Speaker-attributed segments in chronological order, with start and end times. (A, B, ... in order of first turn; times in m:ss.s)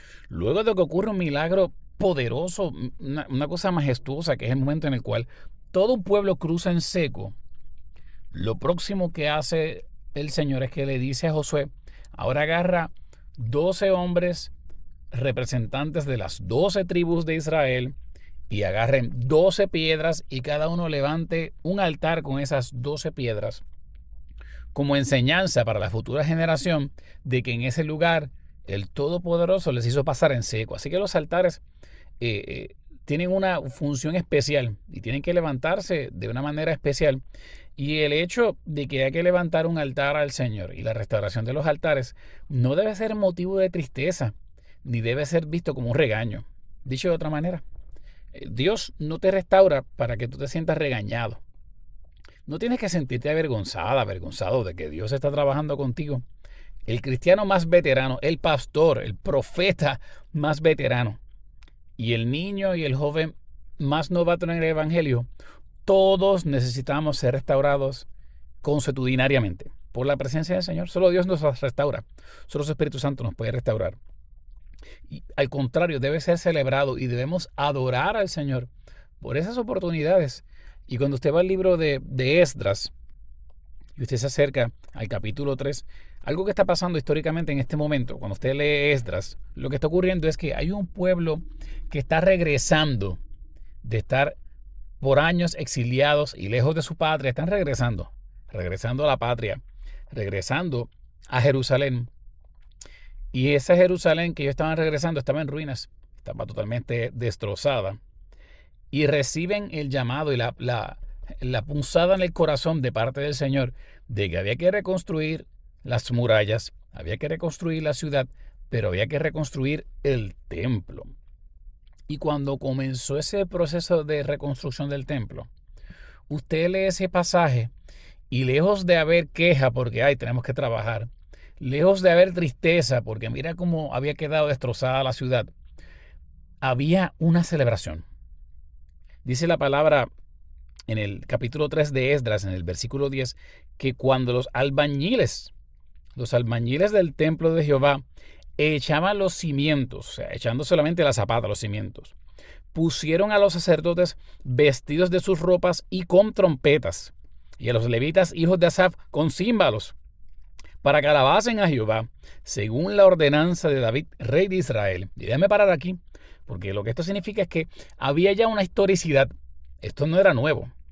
0:00.3-0:07.4 A
0:08.3-0:14.5 A
0:15.1-0:17.9 A
0:18.5-0:23.6 A
0:24.7-0:31.6 A
0:32.2-0:37.2 A
0:37.8-0:47.6 A
0:48.3-0:51.4 A
0:52.4-0:56.2 A
0:56.9-1:01.2 A
1:02.0-1:05.3 A
1:05.8-1:08.1 A
1:08.6-1:14.0 A
1:15.1-1:22.9 A
1:24.0-1:33.2 A
1:33.8-1:34.4 A
1:35.0-1:42.1 A
1:43.3-1:48.0 A
1:48.9-2:01.1 A
2:02.1-2:05.5 A
2:06.3-2:07.7 A
2:08.3-2:15.5 A
2:16.6-2:18.0 A
2:19.2-2:20.1 A
2:20.9-2:25.5 A
2:26.2-2:28.0 A
2:28.6-2:32.2 A
2:32.7-2:39.9 A
2:40.8-2:50.7 A